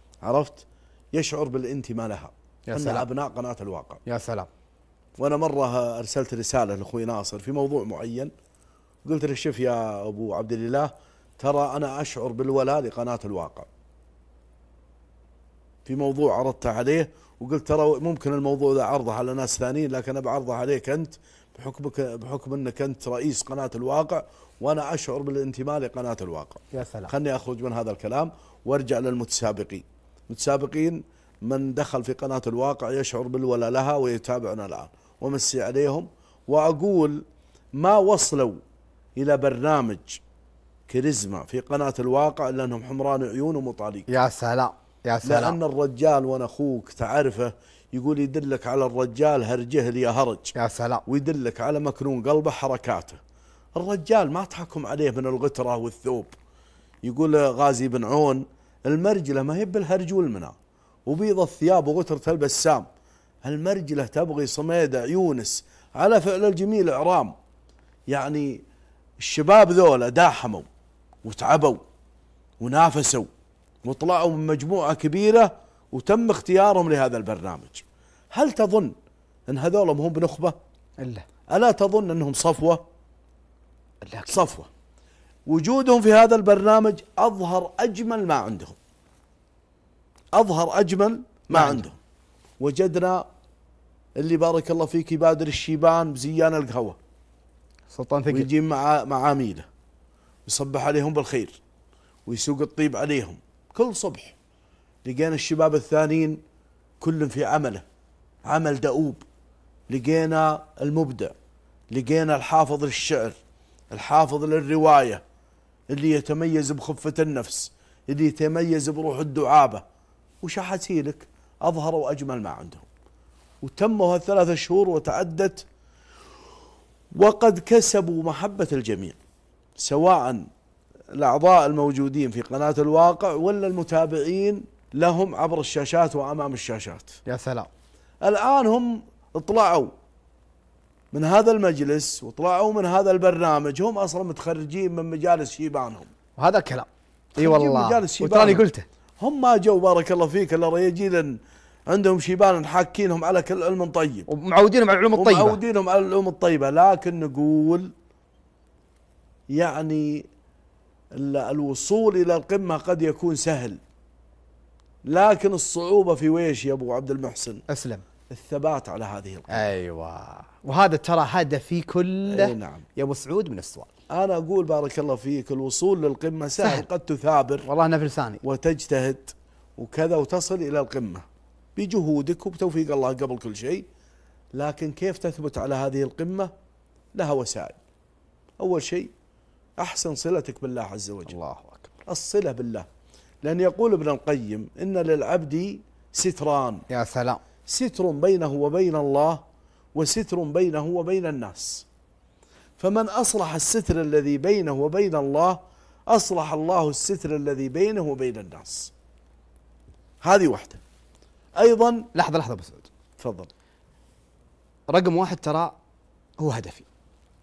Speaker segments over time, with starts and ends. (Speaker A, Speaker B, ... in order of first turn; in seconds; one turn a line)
Speaker A: 0.2-4.0
Speaker B: 2.7-3.0
Speaker B: 4.0-4.5
Speaker A: 5.2-8.3
Speaker A: 9.0-13.7
Speaker A: 15.8-37.2
Speaker B: 26.7-27.1
Speaker A: 37.8-38.6
Speaker A: 39.1-40.2
Speaker A: 40.9-44.1
Speaker B: 44.1-45.6
Speaker A: 45.2-50.5
Speaker B: 50.5-51.0
Speaker A: 51.0-53.2
Speaker A: 53.8-56.3
Speaker A: 57.0-60.5
Speaker A: 61.0-62.9
Speaker A: 63.4-67.3
Speaker A: 68.1-68.6
Speaker A: 69.2-70.7
Speaker A: 71.2-71.8
Speaker A: 72.6-73.3
Speaker A: 73.8-78.9
Speaker A: 79.5-80.5
Speaker A: 81.5-82.8
Speaker B: 84.0-84.4
Speaker A: 84.3-84.7
Speaker A: 85.5-88.8
Speaker A: 90.3-92.0
Speaker B: 91.5-91.9
Speaker A: 92.6-93.2
Speaker A: 94.2-97.0
Speaker B: 97.9-98.5
Speaker A: 98.3-99.7
Speaker A: 100.5-101.6
Speaker A: 102.2-104.4
Speaker A: 105.0-106.4
Speaker A: 107.0-107.8
Speaker A: 108.5-109.2
Speaker A: 109.9-111.3
Speaker A: 111.9-113.4
Speaker A: 113.9-115.2
Speaker A: 115.9-119.8
Speaker A: 120.4-122.9
Speaker A: 123.6-125.7
Speaker A: 127.2-129.2
Speaker A: 129.8-130.4
Speaker A: 131.1-137.2
Speaker B: 137.2-137.7
Speaker A: 138.2-139.9
Speaker A: 141.1-146.1
Speaker B: 146.4-148.8
Speaker A: 147.4-148.6
Speaker A: 149.2-151.3
Speaker A: 151.9-154.3
Speaker B: 154.3-155.6
Speaker A: 155.2-157.9
Speaker A: 159.5-160.3
Speaker A: 161.2-163.8
Speaker A: 165.1-167.6
Speaker B: 167.7-168.0
Speaker A: 168.3-169.7
Speaker B: 169.5-173.9
Speaker A: 172.3-172.8
Speaker A: 174.1-177.7
Speaker B: 176.6-176.9
Speaker B: 177.6-178.4
Speaker A: 178.4-181.2
Speaker A: 181.8-183.8
Speaker A: 184.5-186.5
Speaker A: 187.1-187.8
Speaker A: 188.6-189.1
Speaker A: 189.8-191.3
Speaker B: 191.3-191.9
Speaker A: 192.1-192.9
Speaker A: 193.4-196.8
Speaker B: 196.9-197.4
Speaker A: 197.7-199.4
Speaker A: 199.9-201.9
Speaker A: 202.8-208.9
Speaker A: 210.2-210.8
Speaker A: 211.6-212.1
Speaker B: 212.1-212.9
Speaker A: 213.2-213.5
Speaker B: 214.9-215.7
Speaker B: 216.4-216.8